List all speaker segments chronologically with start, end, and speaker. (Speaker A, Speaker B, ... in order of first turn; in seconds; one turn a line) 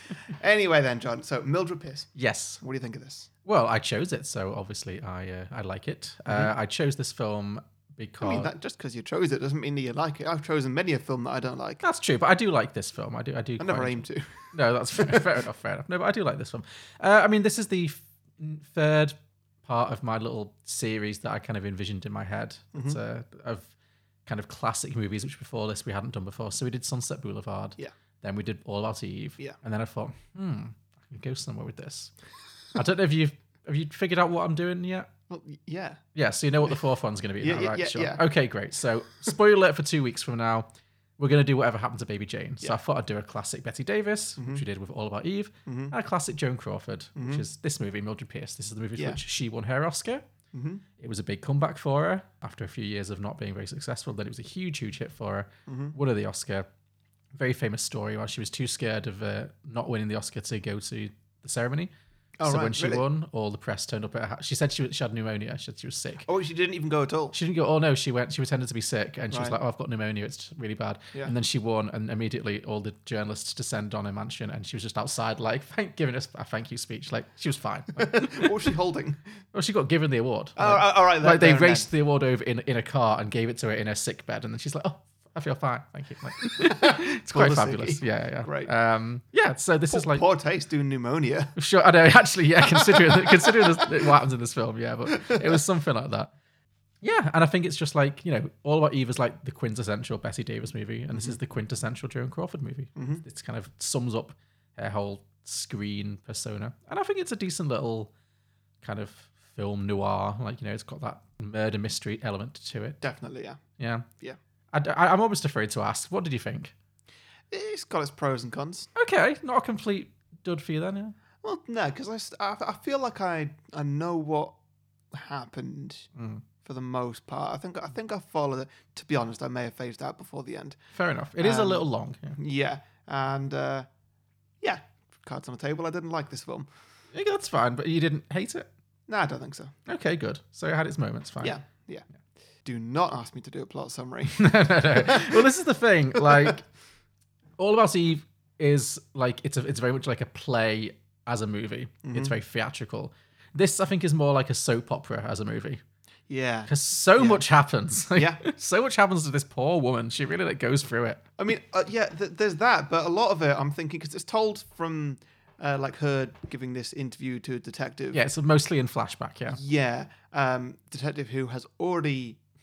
Speaker A: 0.2-3.3
Speaker B: 2.2-2.6
Speaker B: 3.5-8.5
Speaker A: 6.3-6.5
Speaker A: 8.2-11.8
Speaker B: 11.8-23.7
Speaker A: 13.6-15.3
Speaker A: 22.7-23.0
Speaker B: 24.3-32.1
Speaker B: 32.8-35.1
Speaker A: 35.3-36.0
Speaker B: 36.1-50.2
Speaker A: 37.4-38.2
Speaker A: 44.4-44.6
Speaker A: 45.7-45.9
Speaker A: 47.2-47.4
Speaker A: 50.5-50.8
Speaker B: 51.0-56.7
Speaker A: 55.7-56.0
Speaker B: 57.4-61.9
Speaker A: 62.4-63.0
Speaker B: 62.4-66.3
Speaker A: 66.2-67.4
Speaker B: 67.3-78.5
Speaker A: 69.3-69.6
Speaker A: 78.0-79.2
Speaker B: 79.5-90.2
Speaker A: 80.6-81.9
Speaker A: 86.6-88.7
Speaker A: 89.9-91.6
Speaker B: 91.6-96.3
Speaker A: 92.7-94.1
Speaker A: 95.1-95.6
Speaker B: 97.0-108.1
Speaker A: 101.1-101.4
Speaker A: 103.0-103.2
Speaker B: 108.8-113.0
Speaker A: 113.0-113.6
Speaker B: 113.8-114.1
Speaker B: 114.7-116.7
Speaker A: 117.5-118.9
Speaker B: 119.0-121.2
Speaker A: 121.4-124.5
Speaker A: 125.1-126.1
Speaker B: 126.2-126.4
Speaker A: 126.6-130.8
Speaker B: 130.9-132.4
Speaker A: 131.4-133.9
Speaker A: 134.6-136.7
Speaker B: 137.1-138.7
Speaker A: 139.1-139.7
Speaker B: 139.9-141.6
Speaker A: 141.4-142.1
Speaker A: 142.6-145.4
Speaker B: 144.3-146.6
Speaker A: 146.2-146.6
Speaker B: 147.6-155.8
Speaker A: 152.0-152.4
Speaker A: 156.3-157.4
Speaker B: 156.7-161.2
Speaker A: 158.1-158.4
Speaker A: 161.4-168.2
Speaker B: 168.1-169.6
Speaker A: 169.5-172.4